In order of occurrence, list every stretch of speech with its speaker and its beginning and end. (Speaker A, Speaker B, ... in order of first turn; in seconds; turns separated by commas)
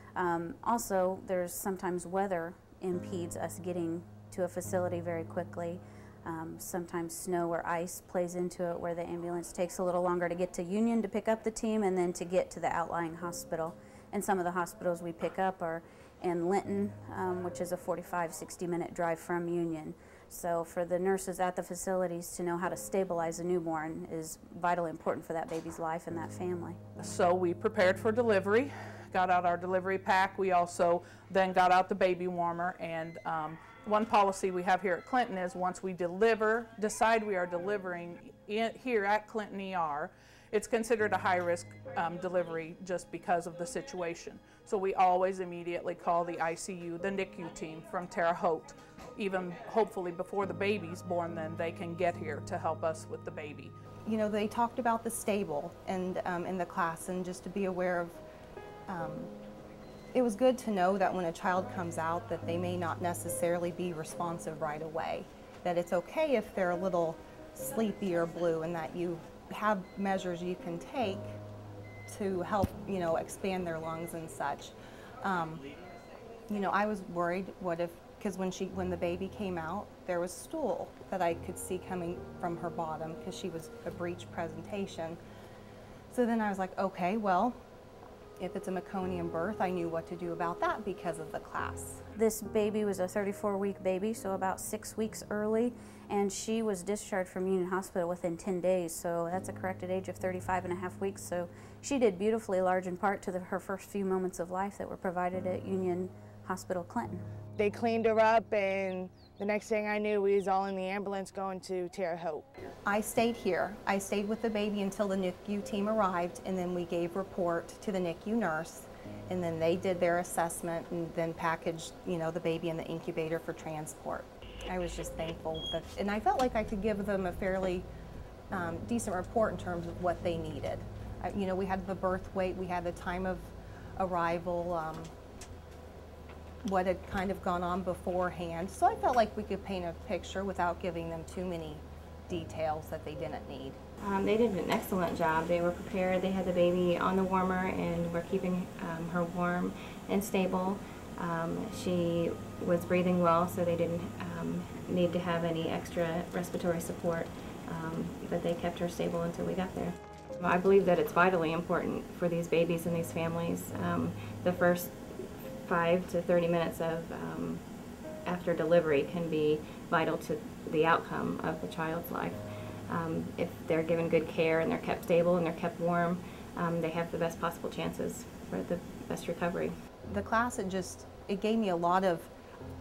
Speaker A: 0.1-26.8, Speaker B: 27.0-53.7, Speaker C: 54.0-58.2, Speaker C: 58.9-59.3, Speaker C: 60.1-71.3, Speaker C: 72.1-75.7, Speaker C: 76.5-85.2, Speaker C: 86.1-87.6, Speaker C: 88.4-92.0, Speaker A: 92.2-107.2, Speaker D: 107.6-112.5, Speaker C: 112.8-127.9, Speaker C: 128.5-135.1, Speaker C: 136.6-143.8, Speaker E: 144.0-167.6, Speaker E: 168.2-179.7, Speaker C: 180.1-182.3